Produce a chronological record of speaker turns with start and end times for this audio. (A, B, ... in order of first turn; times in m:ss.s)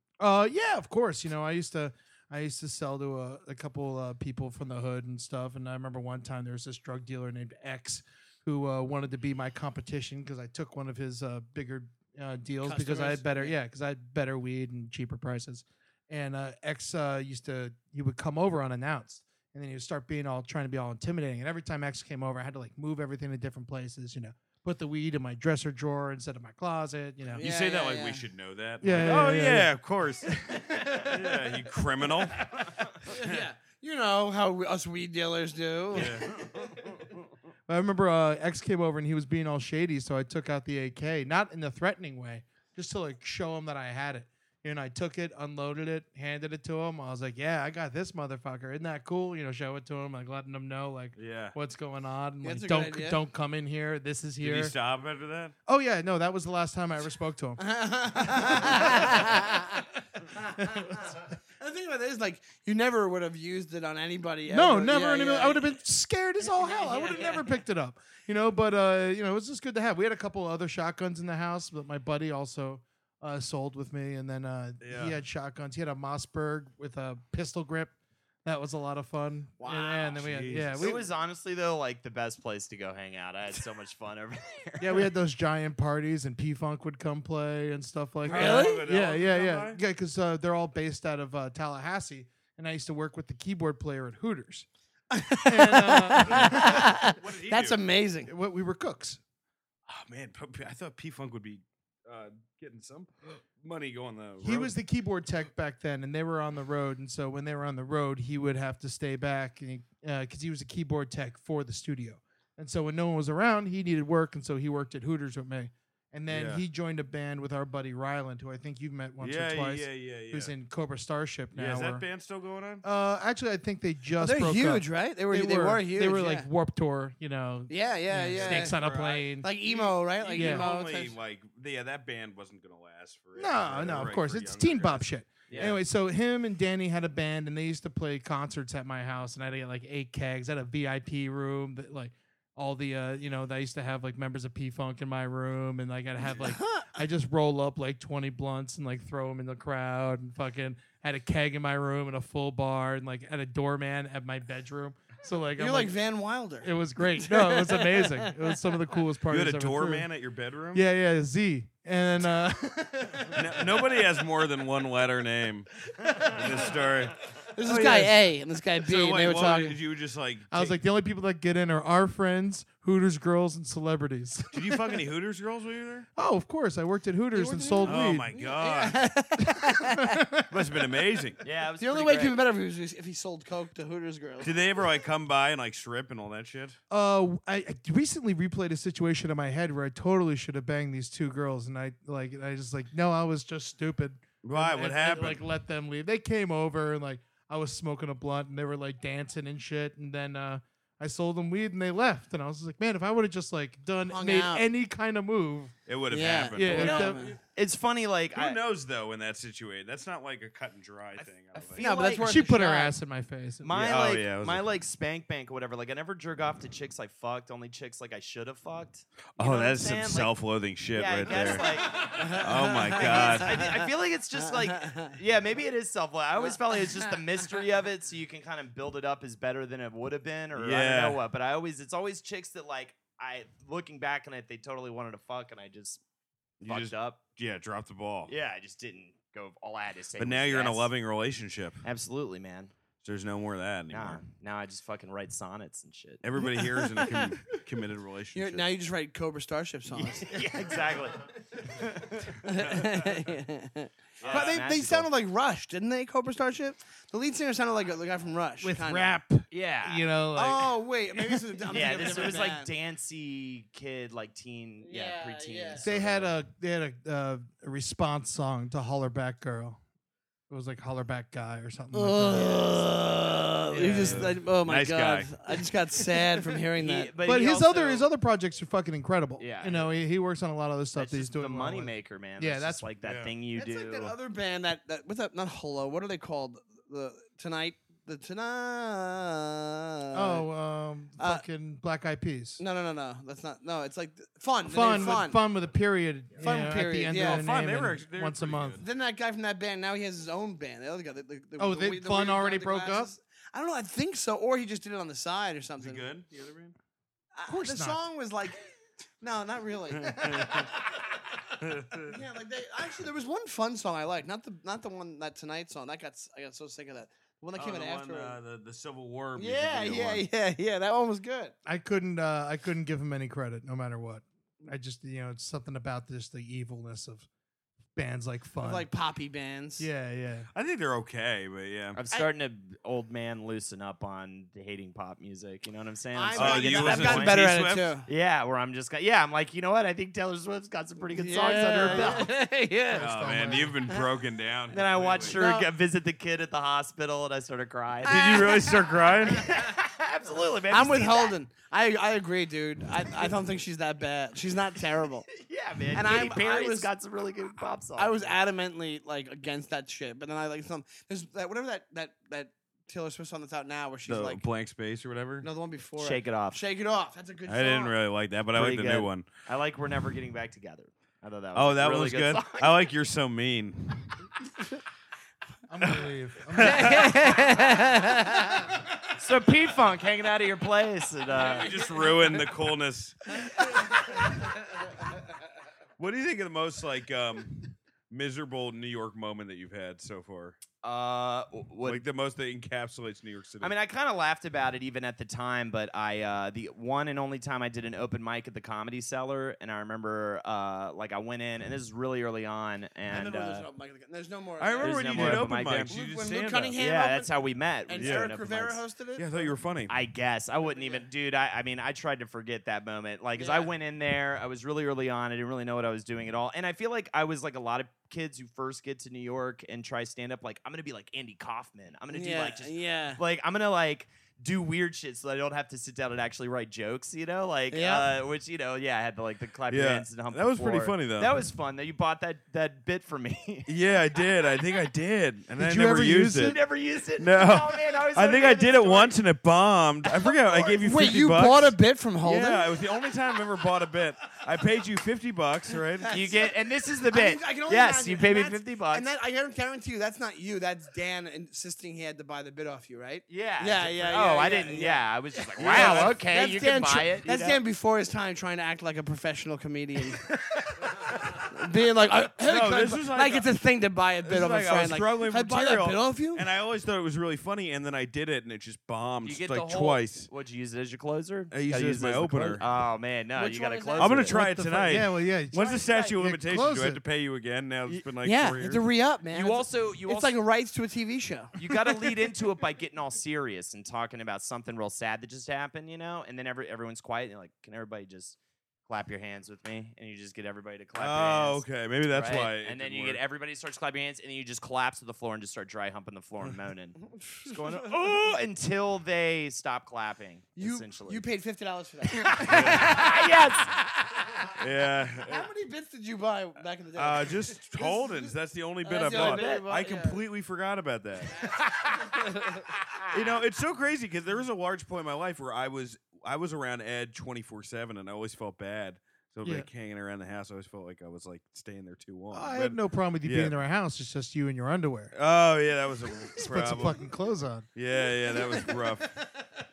0:00.2-0:27.4 A
0:12.6-0:13.6 B
0:27.4-0:28.3 B
0:27.4-0:32.5 C
0:28.8-0:29.7 A
0:30.3-0:31.4 A
0:33.1-0:33.4 C
0:33.1-0:36.2 B
0:35.9-0:36.3 C
0:37.7-0:54.7 A
0:51.2-0:51.6 C
0:52.4-0:53.2 B
0:54.4-0:55.5 C
0:55.7-0:59.5 A
0:57.6-1:05.8 B
1:00.6-1:01.1 A
1:04.5-1:17.9 A
1:06.5-1:07.6 B
1:14.8-1:15.2 C
1:18.4-1:21.0 A
1:19.6-1:20.3 B
1:20.2-1:20.9 C
1:20.8-1:25.1 D
1:24.8-1:34.7 A
1:28.2-1:29.8 C
1:28.3-1:28.8 B
1:35.1-1:38.3 B
1:35.4-1:36.9 A
1:36.2-1:37.8 C
1:38.3-1:39.2 A
1:39.9-1:44.7 C
1:44.4-2:02.0 A
1:56.3-1:56.6 C
1:59.2-2:00.5 C
2:01.6-2:02.8 C
2:02.8-2:09.5 A
2:04.2-2:06.5 B
2:07.7-2:08.8 B
2:08.3-2:15.8 C
2:09.4-2:11.2 B
2:10.3-2:10.7 A
2:13.4-2:36.0 A
2:26.2-2:26.9 B
2:35.6-2:38.8 B
2:36.6-2:40.1 A
2:39.3-2:40.8 C
2:40.7-2:44.0 A
2:43.3-2:48.1 C
2:46.0-2:46.6 A
2:47.6-2:49.8 B
2:48.8-2:50.8 C
2:50.5-2:55.0 A
2:54.5-2:56.1 C
2:56.2-2:58.3 A
2:57.3-3:00.2 B
2:57.8-2:59.0 C
2:59.5-3:00.9 A
3:00.5-3:01.4 C
3:01.4-3:02.4 D
3:01.8-3:04.6 B
3:04.4-3:06.8 C
3:06.9-3:25.7 A
3:14.4-3:15.4 C
3:24.1-3:24.7 B
3:25.9-3:27.3 C
3:26.1-3:27.4 B
3:26.5-3:27.3 A
3:26.8-3:28.6 D
3:28.4-3:31.8 C
3:31.2-3:32.3 D
3:31.8-3:33.0 B
3:32.2-3:33.7 A
3:33.6-3:40.4 D
3:33.7-3:34.7 C
3:39.4-3:43.5 C
3:40.9-3:42.2 D
3:42.0-3:45.2 B
3:42.9-3:56.0 D
3:46.4-3:47.2 B
3:50.6-3:51.2 C
3:56.6-3:58.3 C
3:56.7-3:57.2 D
3:58.3-4:00.9 D
4:00.2-4:01.8 C
4:01.8-4:02.7 D
4:03.0-4:04.2 C
4:03.9-4:06.2 D
4:06.2-4:08.6 C
4:06.4-4:07.3 B
4:08.3-4:10.5 B
4:09.9-4:12.4 D
4:12.4-4:19.1 B
4:12.6-4:13.1 C
4:14.2-4:15.1 D
4:14.2-4:14.6 C
4:18.6-4:21.4 A
4:19.5-4:20.0 D
4:20.4-4:22.7 B
4:21.7-4:26.3 D
4:24.8-4:25.8 B
4:25.8-4:29.8 A
4:30.5-4:32.8 A
4:31.9-4:37.1 B
4:33.7-4:34.3 A
4:33.8-4:35.3 C
4:36.8-4:38.1 D
4:37.2-4:42.9 A
4:39.4-4:39.9 D
4:41.0-4:44.1 D
4:43.0-4:43.3 C
4:43.6-4:50.5 B
4:50.1-4:52.6 A
4:51.2-4:51.4 B
4:52.6-4:55.4 B
4:54.6-4:58.8 A
4:56.4-4:57.5 B
4:57.2-4:58.8 C
4:58.8-5:06.1 B
5:01.6-5:03.1 A
5:05.8-5:06.8 C
5:07.3-5:08.7 B
5:07.5-5:08.0 A
5:09.2-5:11.2 B
5:10.0-5:10.7 C
5:11.6-5:12.2 C
5:11.9-5:18.4 B
5:17.6-5:20.2 C
5:19.4-5:21.5 B
5:21.7-5:27.3 A
5:28.0-5:28.9 A
5:28.6-5:29.9 B
5:29.8-5:30.5 A
5:30.5-5:32.0 C
5:32.0-5:37.4 D
5:36.1-5:38.1 B
5:36.4-5:37.9 C
5:38.1-5:42.3 D
5:41.1-5:43.1 B
5:42.9-5:43.8 A
5:42.9-5:45.4 C
5:44.7-5:48.7 D
5:45.3-5:45.7 B
5:48.0-5:49.5 C
5:48.1-5:48.9 B
5:49.2-5:51.4 D
5:50.7-5:56.9 B
5:55.3-5:58.3 D
5:58.0-6:04.4 B
6:04.1-6:05.5 C
6:05.4-6:08.0 B
6:06.0-6:06.6 D
6:07.5-6:09.3 C
6:08.5-6:12.8 D
6:11.6-6:14.3 C
6:15.7-6:18.7 A
6:15.8-6:17.4 C
6:16.9-6:18.4 B
6:19.2-6:21.7 D
6:21.4-6:23.9 C
6:21.4-6:22.0 B
6:26.0-6:30.6 C
6:30.8-6:32.0 D
6:31.8-6:33.7 C
6:33.6-6:43.7 D
6:43.1-6:47.3 B
6:44.6-6:46.8 C
6:44.8-6:46.0 D
6:46.8-6:48.8 D
6:47.9-6:49.5 B
6:48.0-6:48.3 C
6:49.2-6:49.9 C
6:49.9-7:13.7 D
6:50.6-6:51.1 B
6:53.4-6:53.7 B
7:02.1-7:03.2 B
7:07.7-7:08.1 B
7:09.7-7:11.4 C
7:13.7-7:16.6 C
7:15.6-7:16.6 A
7:16.4-7:19.2 D
7:17.2-7:26.2 C
7:20.3-7:22.8 B
7:26.0-7:40.4 B
7:26.1-7:29.0 D
7:33.3-7:37.6 D
7:35.6-7:36.2 C
7:40.9-7:46.5 B
7:42.4-7:43.5 C
7:44.2-7:50.3 C
7:49.2-7:54.4 D
7:51.5-7:52.6 C
7:53.4-7:54.4 B
7:54.0-7:58.8 C
7:54.3-7:57.0 A
7:55.7-7:56.1 D
7:58.2-8:01.6 B
7:59.3-8:00.4 D
8:01.6-8:21.2 D
8:11.0-8:13.2 C
8:17.0-8:18.0 B
8:20.6-8:24.6 B
8:22.1-8:23.8 D
8:22.5-8:23.1 C
8:24.6-8:25.5 C
8:25.3-8:30.2 B
8:27.0-8:31.4 C
8:29.1-8:29.7 D
8:31.4-8:32.7 B
8:33.1-8:43.6 C
8:42.3-8:45.1 A
8:45.1-8:47.0 C
8:46.4-8:47.7 A
8:47.8-8:49.2 C